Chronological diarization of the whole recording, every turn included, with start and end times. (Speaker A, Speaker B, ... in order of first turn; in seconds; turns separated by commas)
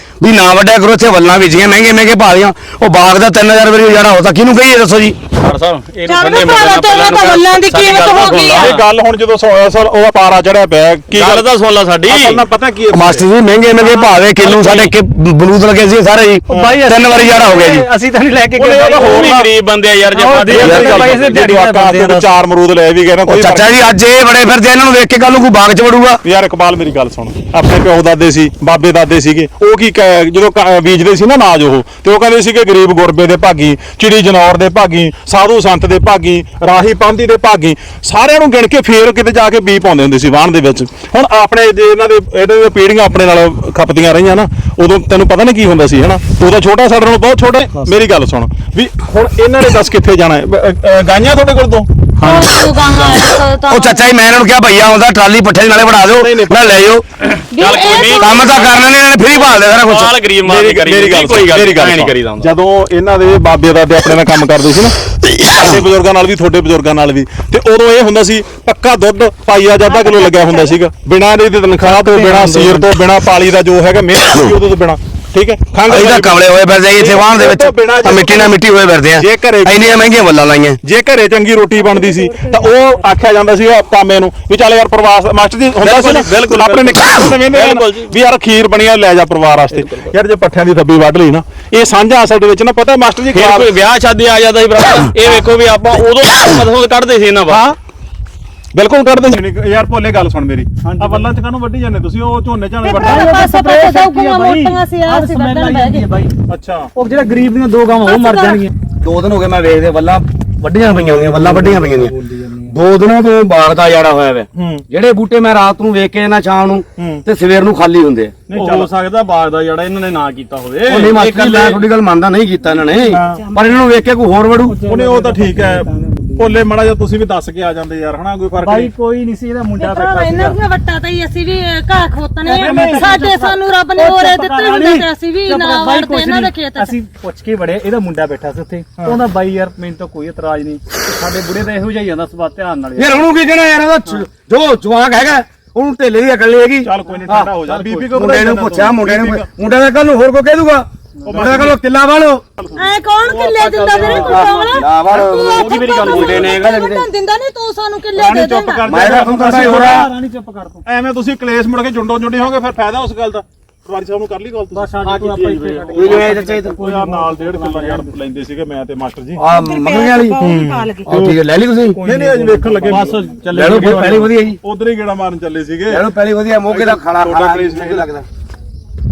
Speaker A: 0.2-5.2, Speaker B: 5.4-8.8, Speaker C: 6.1-8.7, Speaker D: 8.4-11.5, Speaker B: 11.1-12.4, Speaker D: 12.1-13.3, Speaker A: 12.9-17.9, Speaker D: 13.8-14.2, Speaker B: 14.4-14.9, Speaker E: 16.5-19.3, Speaker D: 16.5-16.8, Speaker D: 18.6-19.5, Speaker B: 18.6-21.4, Speaker E: 20.1-22.3, Speaker D: 20.5-23.8, Speaker A: 20.6-20.9, Speaker A: 23.2-26.2, Speaker D: 26.2-53.2, Speaker C: 52.2-54.1, Speaker A: 53.7-57.0, Speaker D: 56.2-56.8, Speaker C: 57.5-58.5, Speaker B: 57.5-62.5, Speaker A: 58.0-60.2, Speaker D: 60.4-65.0, Speaker A: 65.3-65.8, Speaker D: 65.5-78.6, Speaker C: 69.9-70.6, Speaker E: 71.8-72.9, Speaker A: 75.9-80.8, Speaker D: 79.2-80.1, Speaker D: 80.8-93.7, Speaker B: 85.8-88.2, Speaker B: 89.7-90.1, Speaker B: 93.3-97.6, Speaker D: 97.5-97.8, Speaker D: 98.7-103.3, Speaker E: 100.8-101.3, Speaker C: 102.8-106.1, Speaker E: 102.9-106.3, Speaker D: 106.5-106.9, Speaker E: 106.9-108.7, Speaker C: 108.0-108.7, Speaker A: 109.0-112.1, Speaker E: 111.1-112.7, Speaker A: 112.7-118.4, Speaker D: 114.5-114.8, Speaker D: 117.0-117.2, Speaker D: 118.5-118.9, Speaker B: 118.5-121.8, Speaker A: 120.9-124.8, Speaker C: 122.8-123.7, Speaker D: 123.1-123.4, Speaker E: 124.7-126.6, Speaker D: 124.8-128.9, Speaker E: 128.6-130.6, Speaker C: 129.8-136.9, Speaker D: 132.5-133.2, Speaker E: 132.5-143.2, Speaker A: 142.9-147.5, Speaker D: 146.8-149.5, Speaker B: 147.7-148.0, Speaker A: 148.1-152.4, Speaker E: 151.2-151.6, Speaker D: 151.2-151.8, Speaker D: 152.6-152.9, Speaker C: 152.8-159.0, Speaker E: 153.3-154.7, Speaker B: 153.8-154.2, Speaker A: 154.2-157.1, Speaker B: 155.1-156.7, Speaker D: 158.1-160.1, Speaker A: 158.8-160.1, Speaker E: 159.0-160.8, Speaker D: 160.8-164.9, Speaker E: 164.7-168.1, Speaker B: 165.0-167.7, Speaker A: 165.9-166.8, Speaker D: 166.0-169.4, Speaker A: 169.4-170.5, Speaker C: 169.5-171.1, Speaker D: 170.4-171.3, Speaker A: 171.1-172.0, Speaker E: 172.0-173.2, Speaker D: 172.0-176.0, Speaker B: 172.8-174.3, Speaker A: 173.5-174.6, Speaker A: 175.9-178.2, Speaker D: 176.7-178.1